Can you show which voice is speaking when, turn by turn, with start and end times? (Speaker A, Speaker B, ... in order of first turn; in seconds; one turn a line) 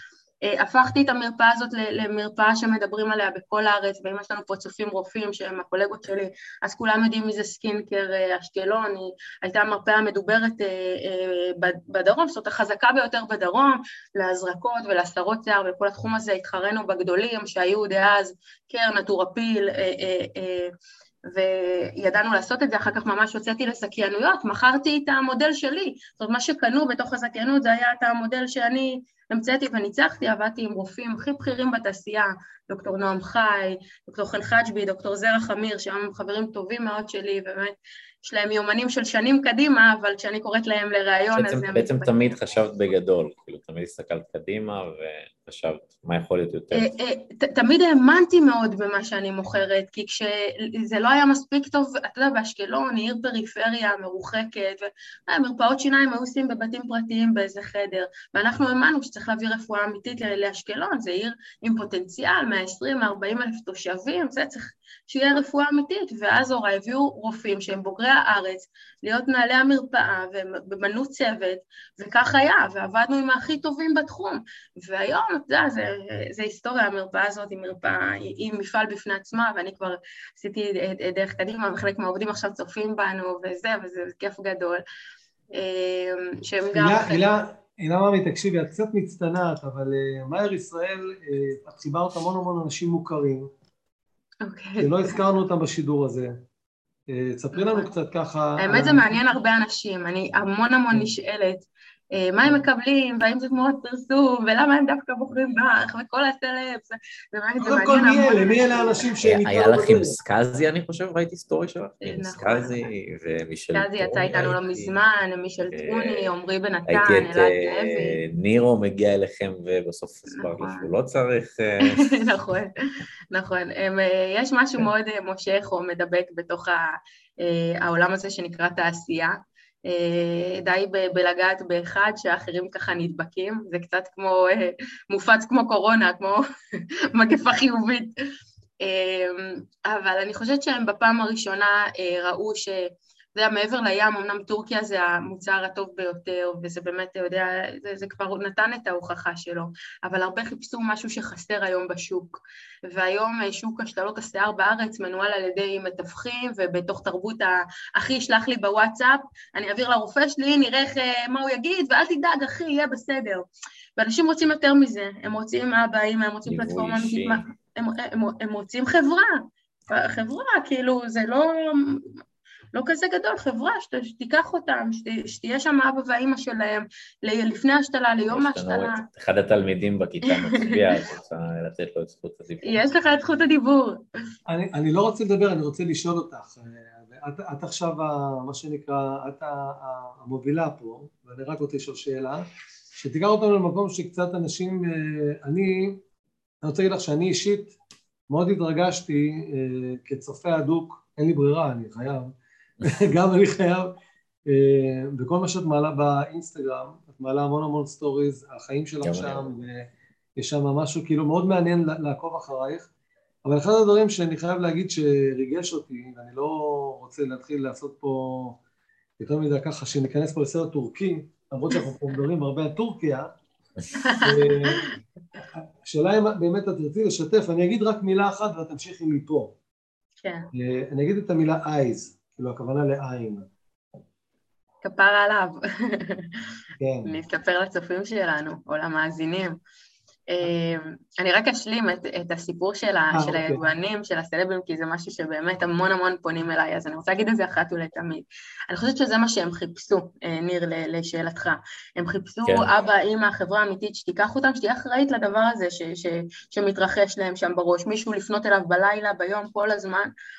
Speaker A: 0.4-20.7
Speaker A: 21.3-42.1
Speaker B: 41.3-46.9
Speaker A: 46.7-84.8
Speaker A: 85.5-87.3
Speaker C: 86.7-93.5
Speaker A: 94.4-95.2
Speaker C: 94.8-96.4
Speaker C: 97.1-99.2
Speaker A: 97.5-97.9
Speaker A: 98.6-109.1
Speaker C: 107.6-110.2
Speaker B: 109.2-115.0
Speaker A: 112.0-112.8
Speaker A: 113.7-118.2
Speaker B: 115.7-116.3
Speaker B: 116.9-122.2
Speaker A: 120.3-120.9
Speaker A: 121.8-122.7
Speaker A: 123.3-136.4
Speaker A: 137.1-138.1
Speaker A: 138.8-163.5
Speaker A: 164.0-172.2
Speaker B: 166.4-167.4
Speaker A: 172.7-179.1
Speaker B: 178.3-182.8
Speaker A: 180.3-181.0
Speaker A: 182.6-184.0
Speaker C: 184.5-196.0
Speaker C: 196.6-197.8
Speaker C: 198.3-204.0
Speaker C: 204.5-212.9
Speaker B: 209.0-209.5
Speaker C: 213.4-218.6
Speaker C: 219.2-223.3
Speaker A: 224.0-224.9
Speaker C: 224.2-224.9
Speaker C: 225.5-229.6
Speaker A: 230.2-230.5
Speaker C: 230.5-233.5
Speaker A: 234.8-236.4
Speaker C: 236.8-237.1
Speaker A: 237.1-239.6
Speaker A: 240.3-260.1
Speaker C: 243.1-243.6